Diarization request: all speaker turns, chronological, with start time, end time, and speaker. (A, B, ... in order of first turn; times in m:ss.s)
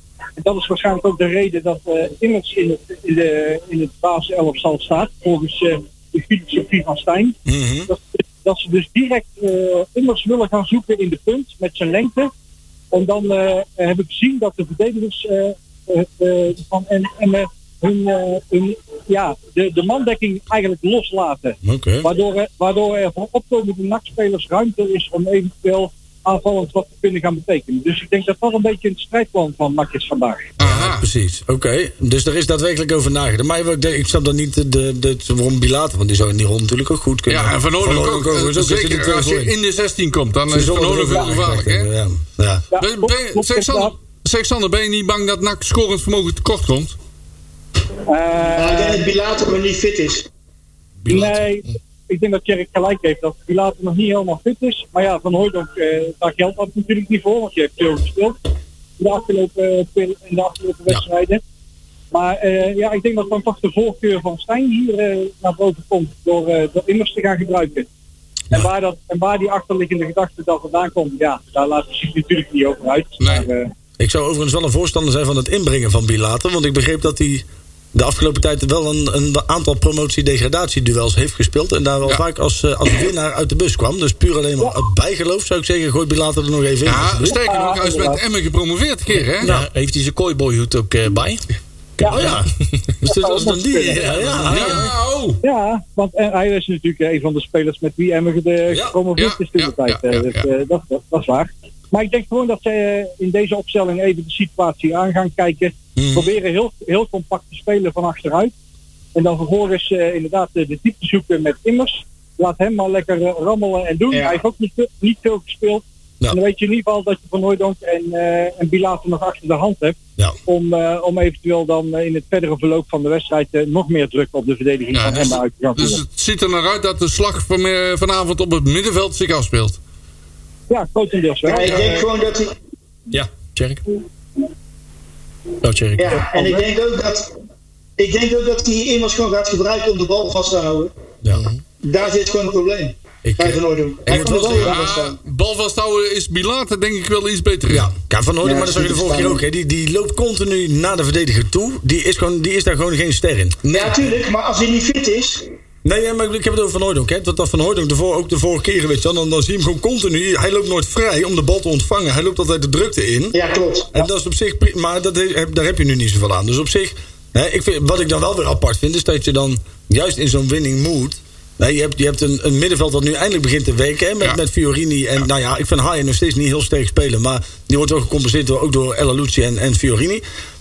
0:00.4-0:07.4 A
0:07.5-0:07.9 B
0:07.9-0:12.3 A
0:12.9-0:30.5 A
0:21.6-0:22.1 B
0:30.6-0:31.1 C
0:30.6-0:39.5 B
0:37.3-0:41.9 C
0:40.5-0:42.7 B
0:42.7-0:43.9 A
0:42.8-0:47.0 C
0:48.1-0:49.1 A
0:48.5-0:50.3 D
0:51.1-0:51.4 E
0:51.1-0:58.4 A
0:59.0-1:01.4 A
1:02.1-1:07.9 A
1:08.5-1:13.7 A
1:13.2-1:13.5 C
1:14.0-1:27.4 B
1:26.8-1:29.5 C
1:27.3-1:28.2 A
1:29.4-1:31.4 E
1:32.0-1:32.9 E
1:32.0-1:32.5 B
1:33.0-1:34.9 B
1:33.1-1:34.1 A
1:34.0-1:34.9 E
1:34.5-1:35.4 C
1:35.4-1:48.5 A
1:38.7-1:39.0 B
1:39.2-1:40.5 C
1:46.0-1:46.3 B
1:49.2-2:06.0 A
1:54.1-1:54.4 D
2:04.9-2:09.8 C
2:10.7-2:12.1 A
2:11.5-2:12.6 D
2:13.1-2:13.8 E
2:15.6-2:16.2 E
2:16.0-2:17.3 D
2:16.3-2:16.7 A
2:18.0-2:20.9 D
2:21.3-2:21.6 E
2:21.8-2:25.2 D
2:23.2-2:24.8 B
2:24.1-2:27.9 C
2:27.7-2:33.7 B
2:28.4-2:29.4 D
2:33.7-2:35.4 D
2:35.8-2:43.4 B
2:43.3-2:44.0 D
2:43.9-3:00.2 B